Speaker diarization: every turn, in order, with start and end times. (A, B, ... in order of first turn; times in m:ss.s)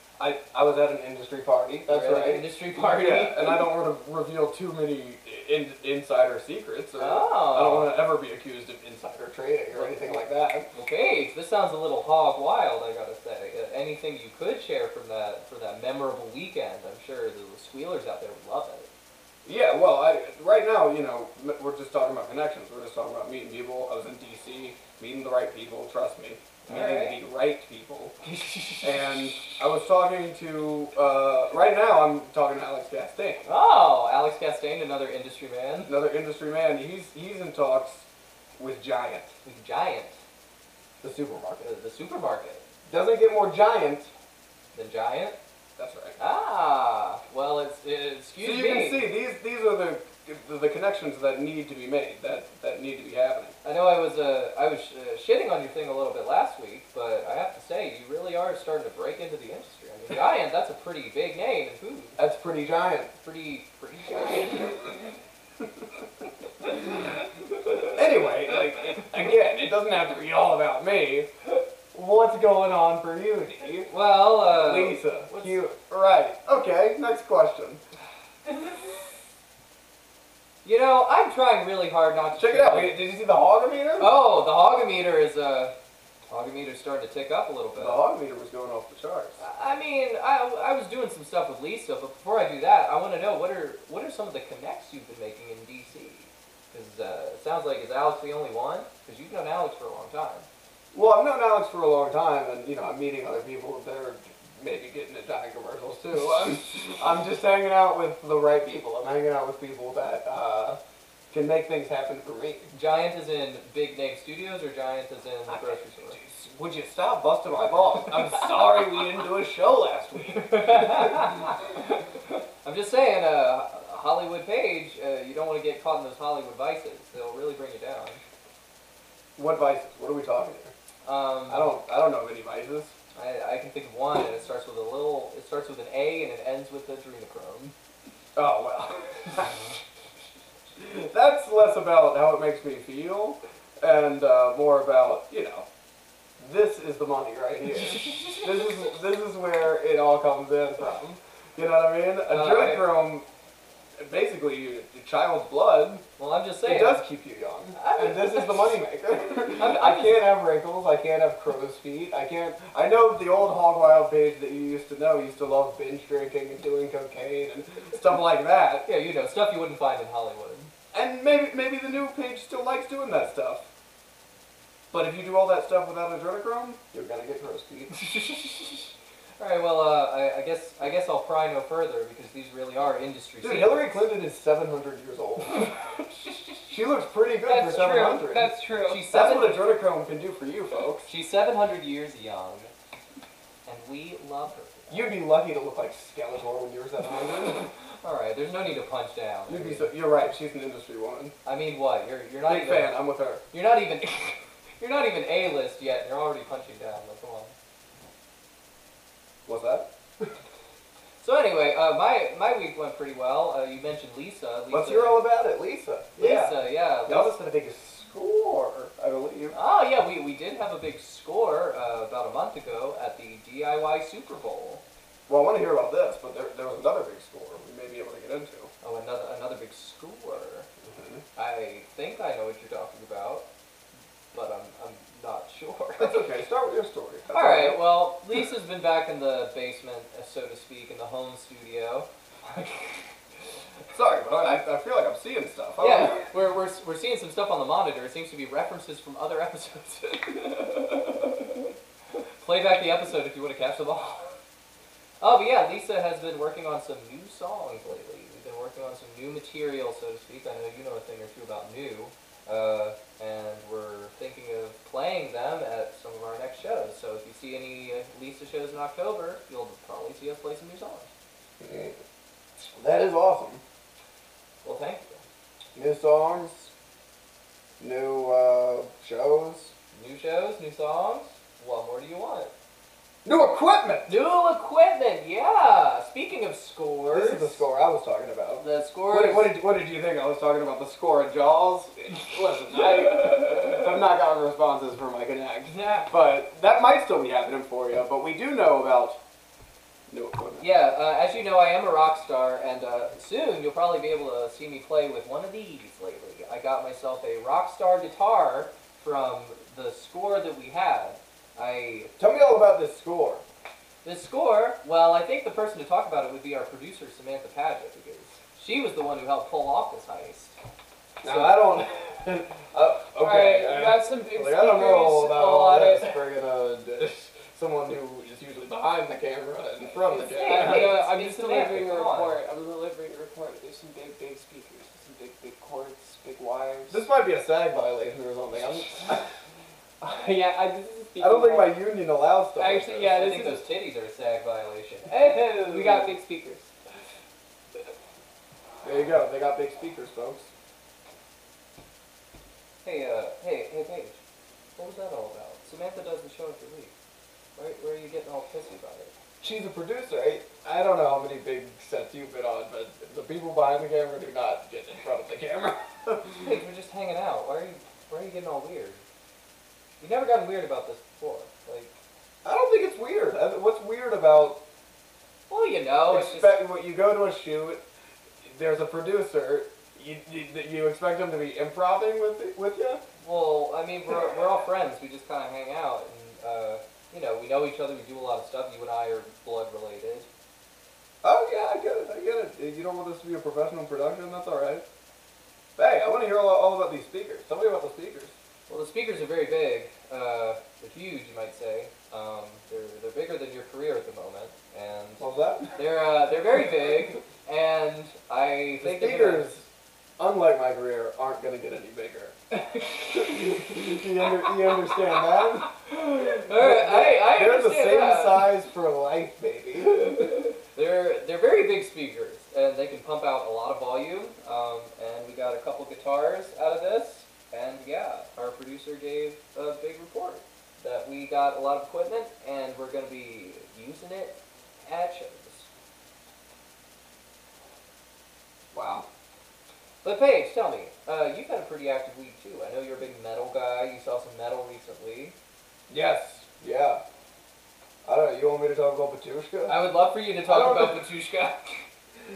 0:00.2-0:10.7 A
0:01.9-0:03.7 B
0:07.0-0:08.0 B
0:09.7-0:18.9 B
0:19.4-0:28.2 A
0:26.7-0:27.2 B
0:28.2-0:29.6 B
0:28.8-0:33.5 A
0:33.5-0:35.9 B
0:35.8-0:38.1 A
0:38.6-0:39.4 A
0:39.4-0:40.2 B
0:41.0-0:41.7 A
0:41.6-0:42.6 B
0:42.9-0:44.1 A
0:44.7-0:45.4 B
0:45.8-0:46.2 A
0:46.2-0:49.1 B
0:48.4-0:53.5 A
0:53.6-1:02.2 B
1:02.2-1:03.1 A
1:03.2-1:04.9 B
1:07.9-1:11.3 A
1:11.9-1:13.9 A
1:13.9-1:15.6 B
1:14.4-1:17.8 A
1:20.6-1:23.0 B
1:22.4-1:24.1 A
1:24.0-1:25.7 B
1:26.3-1:28.0 B
1:27.8-1:29.4 A
1:29.4-1:40.5 B
1:40.9-1:50.8 A
1:51.3-1:52.7 A
1:52.7-1:56.2 B
1:55.5-2:01.4 A
2:00.4-2:08.2 B
2:09.4-2:10.7 A
2:11.0-2:11.7 B
2:11.5-2:12.9 A
2:13.1-2:17.7 B
2:18.4-2:19.6 A
2:20.8-2:25.6 A
2:26.4-2:33.2 A
2:32.3-2:32.9 B
2:34.0-2:36.0 A
2:36.2-2:37.0 B
2:36.6-2:48.9 A
2:37.8-2:38.7 B
2:39.5-2:40.3 B
2:48.8-2:50.7 B
2:50.9-2:53.7 A
2:54.9-2:57.9 A
2:57.9-3:04.1 B
3:03.4-3:05.7 A
3:06.0-3:06.7 B
3:06.7-3:08.6 A
3:07.4-3:09.1 C
3:08.8-3:09.6 B
3:09.1-3:11.1 A
3:11.0-3:12.7 B
3:13.6-3:15.0 B
3:14.9-3:17.7 A
3:18.0-3:19.9 B
3:19.5-3:21.3 A
3:21.4-3:22.9 B
3:22.5-3:23.4 A
3:23.5-3:27.5 B
3:29.4-3:30.3 A
3:31.2-3:35.2 B
3:34.7-3:39.6 A
3:36.2-3:37.4 B
3:39.5-3:44.8 B
3:45.3-3:48.7 A
3:48.8-3:50.7 B
3:50.8-3:51.2 A
3:51.4-3:53.5 B
3:54.3-3:56.3 B
3:56.0-3:57.8 A
3:57.3-4:03.0 B
4:03.9-4:06.3 A
4:05.8-4:11.6 B
4:12.4-4:14.4 B
4:15.2-4:31.1 B
4:31.6-4:32.0 A
4:32.6-4:33.6 A
4:34.6-4:35.2 B
4:35.7-4:36.7 A
4:37.8-4:39.7 A
4:39.9-4:42.5 B
4:43.2-4:44.2 A
4:44.1-4:47.6 B
4:47.1-4:59.2 A
4:48.6-4:49.6 B
4:55.7-4:56.1 B
5:00.1-5:00.6 A
5:00.6-5:12.1 B
5:12.2-5:13.4 A
5:14.0-5:20.6 B
5:21.2-5:31.0 A
5:21.2-5:21.5 B
5:23.2-5:26.3 C
5:30.2-5:32.4 B
5:30.2-5:37.0 C
5:36.9-5:39.3 A
5:40.0-5:41.8 C
5:41.2-5:43.2 A
5:42.6-5:43.6 C
5:43.1-5:46.1 B
5:45.0-5:46.7 C
5:48.8-5:50.5 A
5:52.8-5:54.2 B
5:54.8-5:56.9 B
5:57.6-5:59.1 B
5:59.4-6:06.5 A
6:06.4-6:09.0 B
6:10.0-6:12.0 B
6:12.4-6:14.6 A
6:15.5-6:16.6 B
6:16.1-6:17.8 A
6:18.4-6:23.0 A
6:23.2-6:30.3 B
6:31.2-6:34.8 A
6:35.8-6:38.3 A
6:38.7-6:49.5 B
6:45.2-6:45.7 A
6:48.8-6:52.4 A
6:52.8-6:53.3 B
6:53.1-6:55.7 A
6:55.8-6:58.6 B
6:56.3-7:00.2 A
7:00.0-7:15.7 B
7:18.7-7:19.1 A
7:20.0-7:25.3 B
7:25.9-7:27.0 A
7:28.0-7:29.9 A
7:29.7-7:31.9 B
7:30.4-7:31.0 A